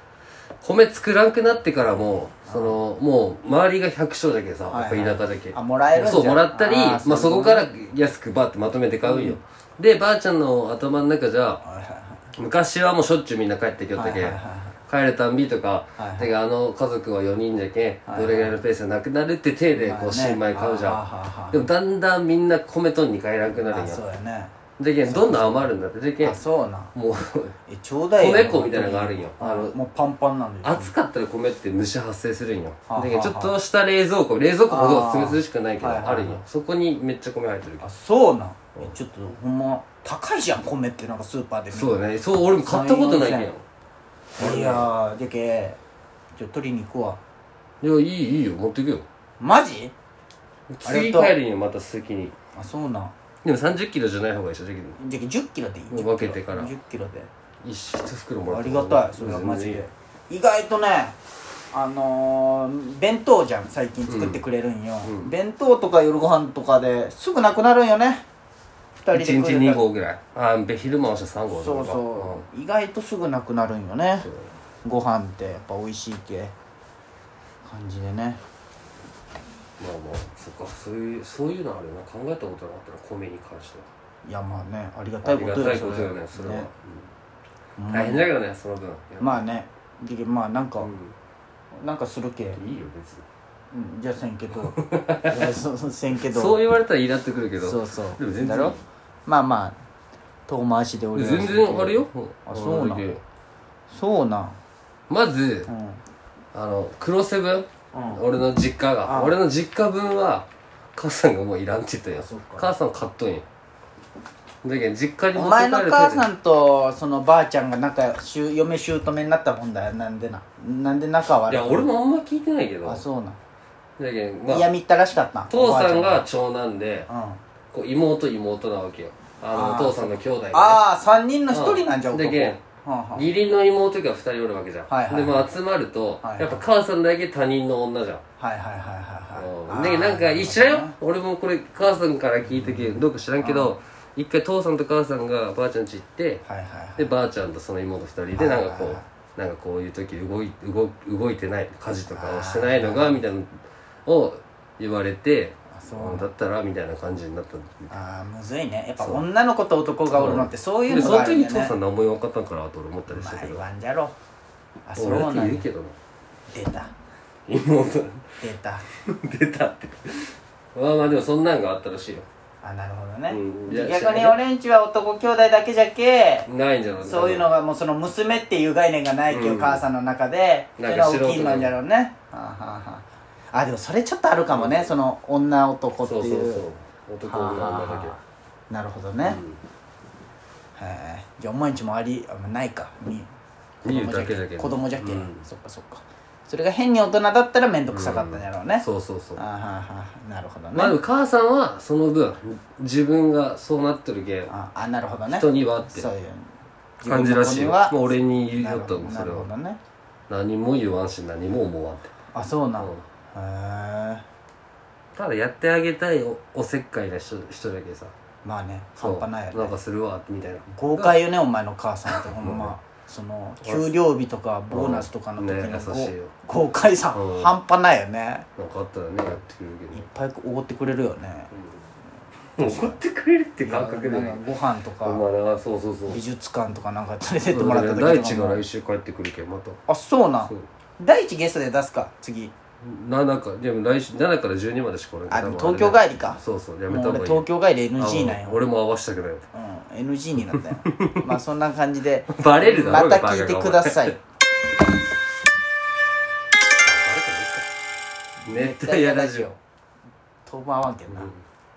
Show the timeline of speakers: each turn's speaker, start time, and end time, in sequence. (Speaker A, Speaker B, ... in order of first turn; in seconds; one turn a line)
Speaker A: 0.6-11.6
Speaker B: 2.4-2.8
Speaker B: 4.7-7.7
Speaker B: 9.0-9.4
Speaker B: 11.6-12.3
Speaker A: 12.3-24.0
Speaker B: 13.9-14.8
Speaker B: 16.0-16.4
Speaker B: 18.1-18.6
Speaker B: 19.8-21.7
Speaker B: 23.6-26.9
Speaker A: 24.7-26.4
Speaker A: 26.9-27.6
Speaker B: 27.7-30.9
Speaker A: 28.2-29.8
Speaker A: 30.6-37.9
Speaker B: 32.9-33.6
Speaker B: 34.7-36.5
Speaker B: 37.8-43.5
Speaker A: 41.8-43.6
Speaker B: 44.4-45.8
Speaker A: 44.4-44.9
Speaker B: 46.4-47.2
Speaker A: 47.8-49.0
Speaker B: 49.4-49.9
Speaker A: 50.7-52.4
Speaker B: 50.8-51.4
Speaker B: 52.5-53.1
Speaker A: 53.4-55.0
Speaker B: 55.0-57.3
Speaker A: 55.9-56.7
Speaker A: 57.6-59.8
Speaker B: 58.4-61.2
Speaker B: 61.7-68.2
Speaker A: 64.1-64.4
Speaker A: 65.0-65.3
Speaker B: 69.0-69.9
Speaker A: 69.1-72.5
Speaker B: 71.5-74.3
Speaker A: 74.2-74.5
Speaker B: 74.8-76.5
Speaker B: 77.6-78.4
Speaker A: 79.8-83.8
Speaker B: 84.2-86.7
Speaker A: 85.2-87.1
Speaker B: 87.8-88.3
Speaker A: 87.9-89.4
Speaker B: 89.2-90.9
Speaker A: 90.8-91.2
Speaker B: 91.7-92.6
Speaker A: 92.5-93.2
Speaker B: 93.7-96.7
Speaker A: 94.6-95.5
Speaker A: 96.2-98.8
Speaker B: 97.6-99.8
Speaker B: 100.5-103.1
Speaker A: 101.1-103.2
Speaker B: 103.9-104.6
Speaker A: 105.1-105.7
Speaker B: 105.7-106.0
Speaker A: 106.5-113.4
Speaker B: 107.9-108.2
Speaker B: 109.0-109.4
Speaker B: 112.1-112.7
Speaker A: 114.6-116.3
Speaker B: 115.3-121.9
Speaker A: 121.5-123.0
Speaker B: 122.8-123.4
Speaker A: 124.0-124.7
Speaker B: 124.5-126.3
Speaker A: 125.5-127.1
Speaker B: 127.1-127.4
Speaker A: 127.7-130.8
Speaker B: 129.5-133.3
Speaker A: 131.5-138.2
Speaker B: 134.9-135.5
Speaker B: 136.2-136.7
Speaker B: 138.4-141.0
Speaker A: 139.3-146.4
Speaker B: 142.6-143.8
Speaker B: 146.4-147.1
Speaker A: 147.0-157.9
Speaker B: 148.3-149.1
Speaker B: 152.1-153.3
Speaker B: 155.7-156.3
Speaker B: 157.9-161.8
Speaker A: 159.0-159.3
Speaker A: 160.1-163.6
Speaker B: 163.1-164.2
Speaker B: 164.8-165.7
Speaker A: 164.9-166.0
Speaker B: 166.5-166.9
Speaker A: 167.5-168.4
Speaker B: 168.4-168.8
Speaker A: 168.9-172.3
Speaker B: 172.6-186.7
Speaker A: 173.3-174.4
Speaker A: 176.5-177.6
Speaker A: 179.3-179.8
Speaker A: 180.8-181.7
Speaker A: 184.5-185.0
Speaker A: 186.0-188.2
Speaker B: 187.2-189.4
Speaker A: 189.2-189.6
Speaker B: 190.8-193.3
Speaker B: 193.8-201.0
Speaker A: 193.8-195.4
Speaker A: 197.9-199.4
Speaker A: 200.7-204.5
Speaker B: 204.5-209.8
Speaker A: 205.3-206.1
Speaker A: 207.1-209.5
Speaker A: 210.3-212.1
Speaker B: 212.3-214.2
Speaker A: 212.8-213.1
Speaker A: 215.2-218.1
Speaker B: 218.4-219.8
Speaker A: 219.0-221.2
Speaker B: 220.7-228.5
Speaker A: 222.1-222.7
Speaker A: 223.6-223.9
Speaker A: 224.7-226.3
Speaker A: 227.1-227.6
Speaker A: 228.6-230.1
Speaker B: 229.9-231.5
Speaker A: 232.6-234.4
Speaker B: 232.6-233.0
Speaker B: 233.6-235.3
Speaker A: 235.0-236.2
Speaker B: 236.1-238.7
Speaker A: 237.5-239.8
Speaker B: 239.9-242.5
Speaker A: 242.8-249.5
Speaker B: 245.3-248.7
Speaker B: 249.5-254.2
Speaker A: 250.4-251.3
Speaker A: 252.3-254.2
Speaker A: 256.8-257.7
Speaker B: 258.4-259.6
Speaker A: 258.4-259.5
Speaker B: 260.4-261.3
Speaker A: 261.1-261.4